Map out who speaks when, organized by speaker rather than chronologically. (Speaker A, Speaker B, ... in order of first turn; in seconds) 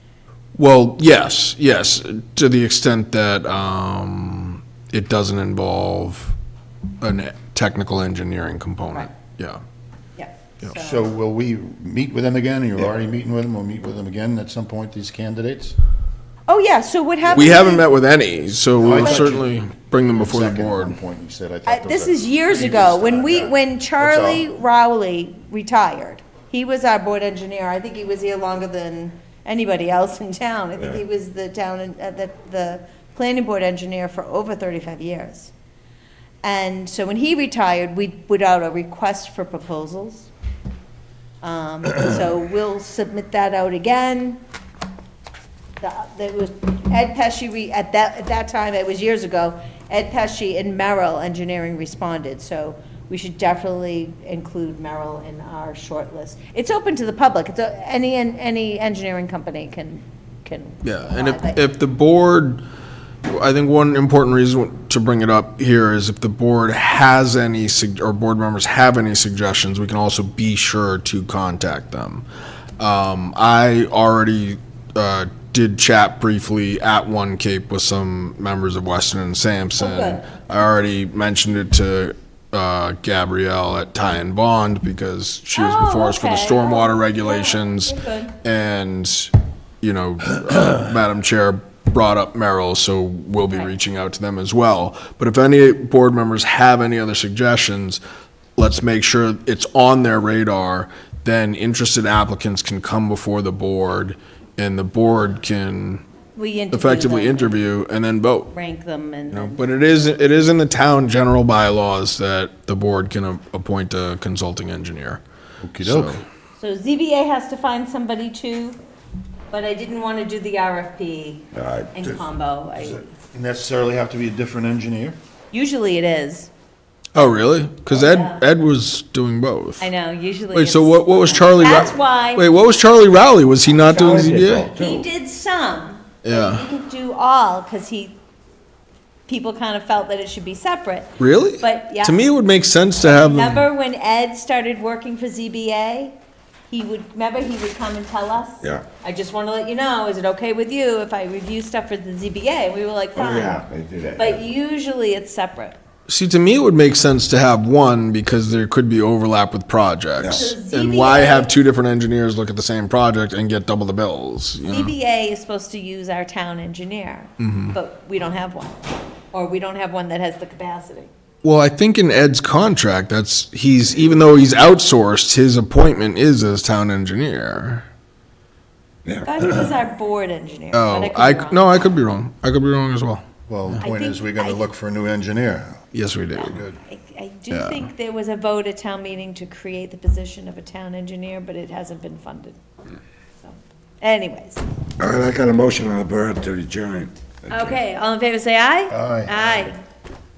Speaker A: 0.5-6.3, 7.0-9.6, 17.3-20.9, 60.8-62.6, 63.2-72.2, 72.8-98.0, 98.5-106.0, 106.7-108.5, 109.3-115.2, 115.8-116.2, 127.1-129.9, 130.5-134.7, 136.2-136.6, 141.2-143.6, 156.1-164.9, 167.4-167.7, 171.4-177.8, 180.7-183.2, 185.9-186.6, 187.5-187.8
Speaker B: 10.2-11.1, 16.5-17.9, 18.9-19.3, 21.6-35.5, 36.4-40.3, 41.4-44.4, 45.8-61.6, 79.8-80.3, 85.5-88.3, 93.5-93.7, 106.3-107.6, 108.5-109.7, 116.6-118.8, 119.5-123.2, 125.5-126.5, 127.9-128.4, 129.8-132.4, 134.1-138.2, 139.3-142.3, 143.0-146.2, 146.7-153.6, 154.2-155.8, 160.3-161.6, 164.7-168.8, 169.3-171.1, 179.2-181.7, 183.8-184.6, 186.3-192.6, 193.4-194.6, 197.5-199.8
Speaker C: 10.8-15.7, 18.8-24.4, 115.6-116.2, 122.8-125.2, 183.5-185.8, 186.4-186.8, 198.9-199.7
Speaker D: 121.5-122.2, 133.8-135.1, 153.1-154.4, 160.2-160.5, 179.0-179.7, 195.0-197.8